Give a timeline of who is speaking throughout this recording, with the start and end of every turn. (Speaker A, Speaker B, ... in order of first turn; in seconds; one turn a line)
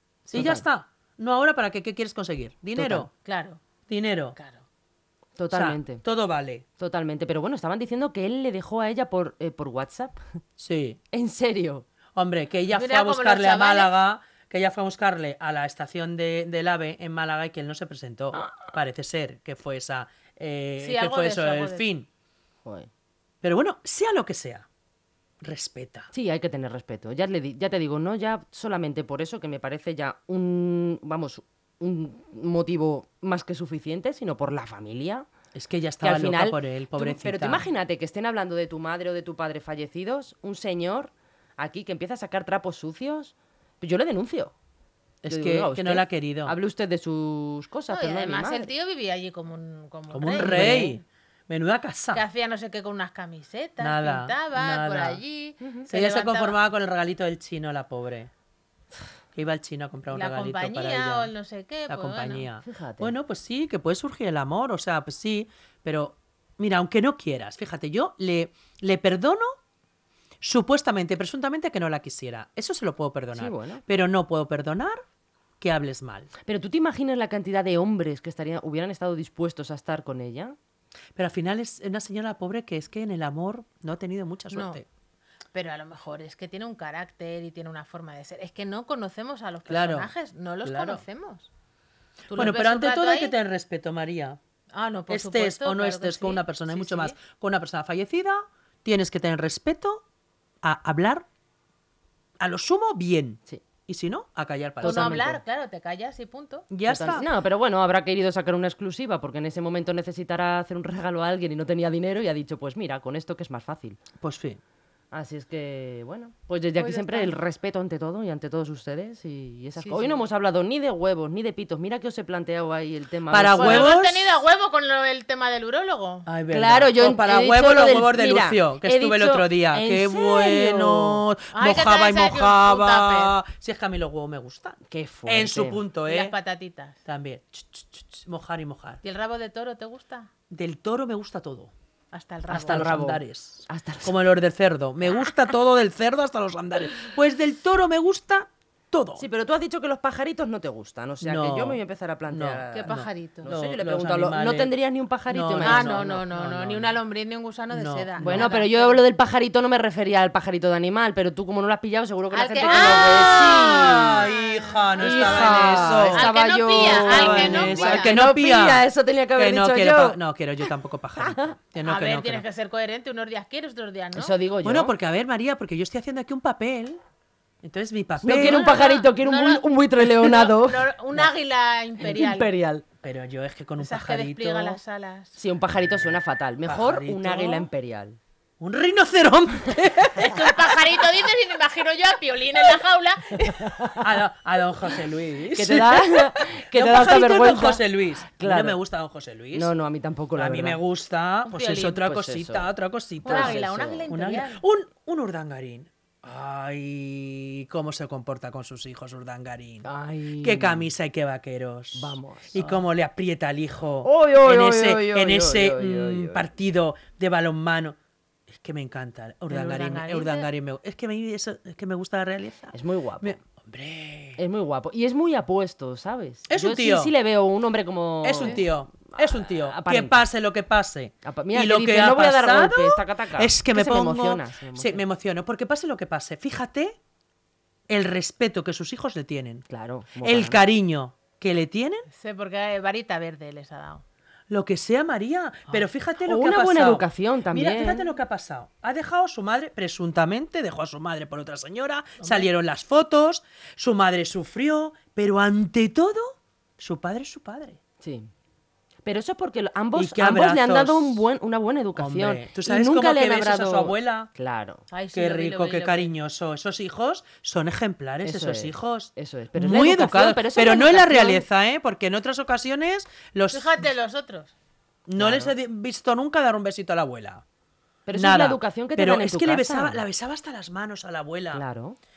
Speaker A: 0.3-3.1
Speaker B: 0.3-0.6
Speaker B: 2.7-3.1
Speaker C: 3.2-3.6
Speaker A: 3.9-4.3
Speaker C: 4.3-4.6
Speaker B: 5.4-6.0
Speaker A: 5.5-6.6
Speaker B: 6.8-10.2
Speaker A: 10.6-11.0
Speaker B: 11.1-11.8
Speaker A: 12.1-22.1
Speaker C: 12.7-13.9
Speaker C: 20.8-21.8
Speaker B: 22.6-22.9
Speaker A: 23.4-24.6
Speaker A: 25.4-26.1
Speaker B: 26.1-35.3
Speaker A: 35.5-37.6
Speaker B: 36.0-44.5
Speaker A: 45.2-46.5
Speaker B: 45.3-48.7
Speaker C: 47.9-51.0
Speaker A: 50.1-52.2
Speaker B: 50.4-50.9
Speaker C: 52.1-56.6
Speaker A: 53.8-55.2
Speaker B: 55.6-55.9
Speaker A: 55.9-58.3
Speaker A: 59.3-61.3
Speaker C: 60.1-62.5
Speaker A: 61.9-69.5
Speaker B: 62.6-63.1
Speaker A: 70.4-75.0
Speaker B: 73.3-73.8
Speaker A: 75.6-76.3
Speaker B: 76.4-80.5
Speaker A: 81.2-84.8
Speaker C: 84.5-84.8
Speaker C: 85.5-91.5
Speaker A: 89.7-90.1
Speaker A: 90.6-91.0
Speaker C: 92.3-93.3
Speaker A: 92.3-94.4
Speaker C: 94.7-97.2
Speaker A: 95.1-100.0
Speaker A: 100.6-101.2
Speaker A: 102.4-105.3
Speaker B: 104.8-105.4
Speaker C: 104.8-106.6
Speaker A: 106.7-107.3
Speaker B: 106.9-114.0
Speaker A: 114.2-114.6
Speaker B: 115.1-123.9
Speaker C: 116.8-117.3
Speaker C: 119.8-120.2
Speaker A: 123.3-124.3
Speaker C: 123.5-126.3
Speaker A: 126.2-136.3
Speaker B: 126.5-131.2
Speaker C: 131.5-133.3
Speaker B: 134.9-135.8
Speaker C: 136.1-137.0
Speaker A: 137.0-139.0
Speaker C: 139.0-140.3
Speaker A: 140.5-141.7
Speaker C: 142.1-143.0
Speaker B: 142.5-144.2
Speaker A: 142.5-149.3
Speaker B: 145.1-145.3
Speaker B: 149.2-156.2
Speaker A: 151.2-154.7
Speaker C: 152.7-153.5
Speaker A: 155.3-157.0
Speaker C: 155.6-159.0
Speaker A: 157.7-158.5
Speaker B: 158.2-164.2
Speaker C: 162.3-168.1
Speaker A: 162.6-172.4
Speaker B: 165.0-171.5
Speaker C: 171.8-174.3
Speaker B: 174.1-174.9
Speaker A: 174.6-177.0
Speaker A: 177.6-178.8
Speaker B: 178.2-181.3
Speaker C: 178.3-182.5
Speaker B: 182.0-182.8
Speaker A: 183.0-184.8
Speaker C: 183.8-185.3
Speaker B: 185.3-188.2
Speaker A: 185.9-187.7
Speaker A: 188.6-190.8
Speaker C: 190.2-194.0
Speaker B: 193.5-194.1
Speaker A: 194.0-199.7
Speaker B: 195.5-198.8
Speaker B: 199.5-200.8
Speaker A: 200.3-209.9
Speaker C: 201.4-202.0
Speaker B: 201.9-202.7
Speaker B: 203.2-204.1
Speaker C: 203.2-204.6
Speaker B: 209.8-210.9
Speaker A: 210.4-217.9
Speaker B: 211.9-212.8
Speaker B: 214.0-216.4
Speaker A: 218.5-224.4
Speaker C: 219.5-220.5
Speaker B: 222.7-223.4
Speaker B: 224.4-230.2
Speaker A: 226.5-227.1
Speaker A: 228.2-237.0
Speaker B: 231.2-235.0
Speaker A: 237.9-239.7
Speaker B: 239.7-240.6
Speaker A: 240.2-242.1
Speaker C: 242.1-244.0
Speaker A: 244.5-257.8
Speaker B: 246.2-248.1
Speaker C: 252.2-252.5
Speaker B: 258.0-258.3
Speaker B: 259.0-264.8
Speaker A: 259.9-261.2
Speaker A: 261.9-264.3
Speaker C: 264.9-266.1
Speaker A: 265.1-273.9
Speaker B: 268.2-271.4
Speaker C: 273.5-274.5
Speaker A: 275.1-277.4
Speaker B: 275.2-275.5
Speaker B: 278.1-280.0
Speaker A: 278.1-281.6
Speaker B: 281.5-282.0